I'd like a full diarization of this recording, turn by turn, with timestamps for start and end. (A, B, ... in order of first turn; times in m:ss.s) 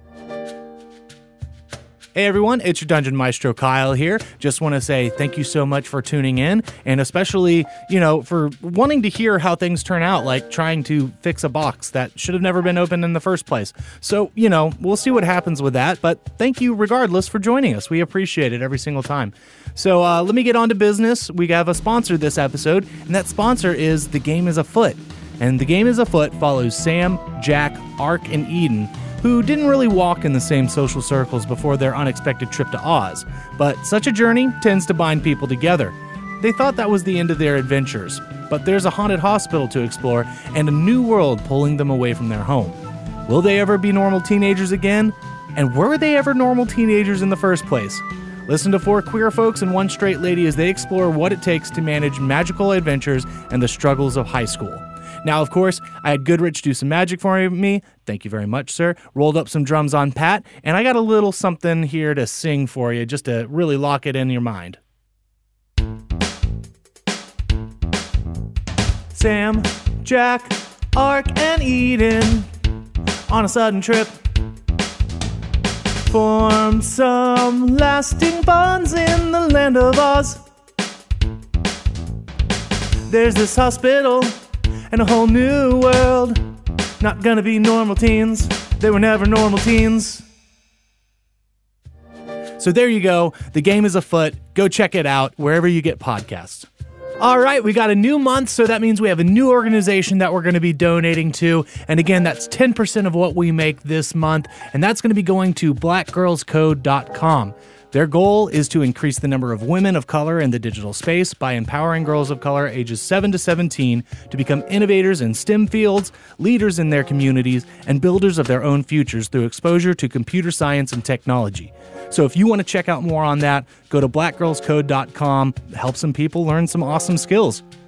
0:02.2-1:04.8 A
1:09.1-1:12.5 A
1:13.3-1:14.2 A
1:16.0-1:20.4 A
1:23.1-1:24.4 A
1:24.9-1:26.4 A
1:27.0-1:30.3 A
1:32.6-1:36.7 A
1:37.2-2:07.6 A